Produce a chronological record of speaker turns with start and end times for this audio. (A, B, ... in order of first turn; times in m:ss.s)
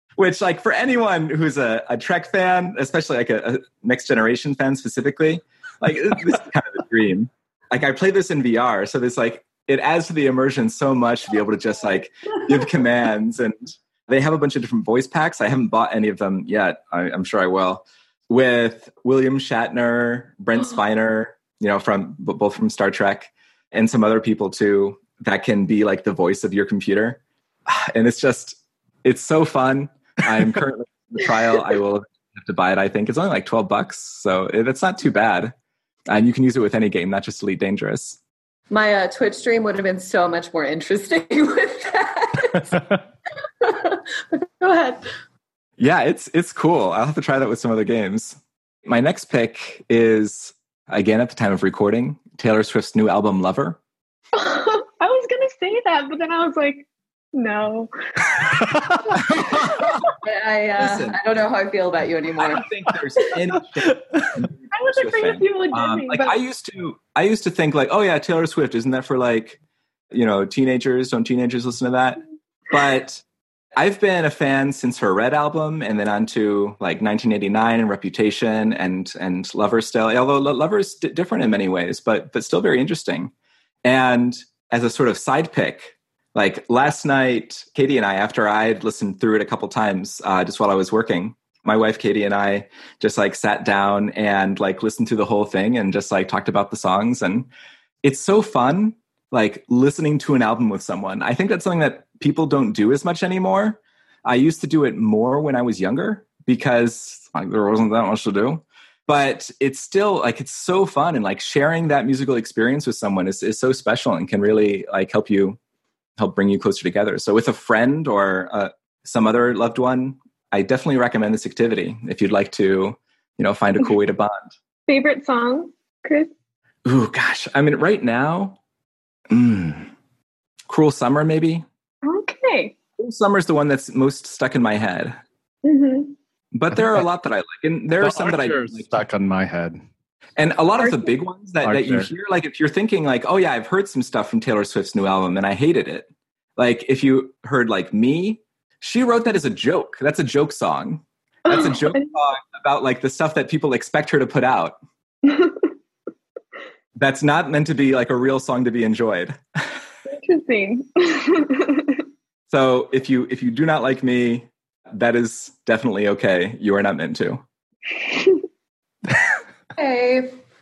0:00.2-0:35.5 A
0:36.1-0:38.2 A
0:38.7-0:43.0 B
0:43.6-0:45.1 B
0:45.8-0:53.8 A
0:54.4-0:58.7 C
0:59.6-1:02.7 B
1:00.8-1:01.2 A
1:02.4-1:09.6 A
1:04.7-1:06.4 C
1:10.1-1:13.2 A
1:13.8-1:23.3 A
1:23.8-1:37.5 A
1:38.0-1:55.6 A
1:56.2-2:04.5 A
2:04.9-2:06.3 C
2:06.8-2:08.6 A
2:09.3-2:09.9 A
2:10.7-2:11.7 A
2:12.0-2:12.8 C
2:13.0-2:15.2 A
2:15.6-2:16.1 C
2:16.5-2:18.9 A
2:18.0-2:19.8 D
2:20.4-2:34.8 A
2:20.8-2:21.1 C
2:21.6-2:22.1 D
2:31.5-2:32.1 C
2:35.2-2:35.7 C
2:37.0-2:39.8 A
2:40.1-2:42.0 C
2:42.5-2:47.4 A
2:48.0-2:48.4 C
2:49.8-2:50.4 B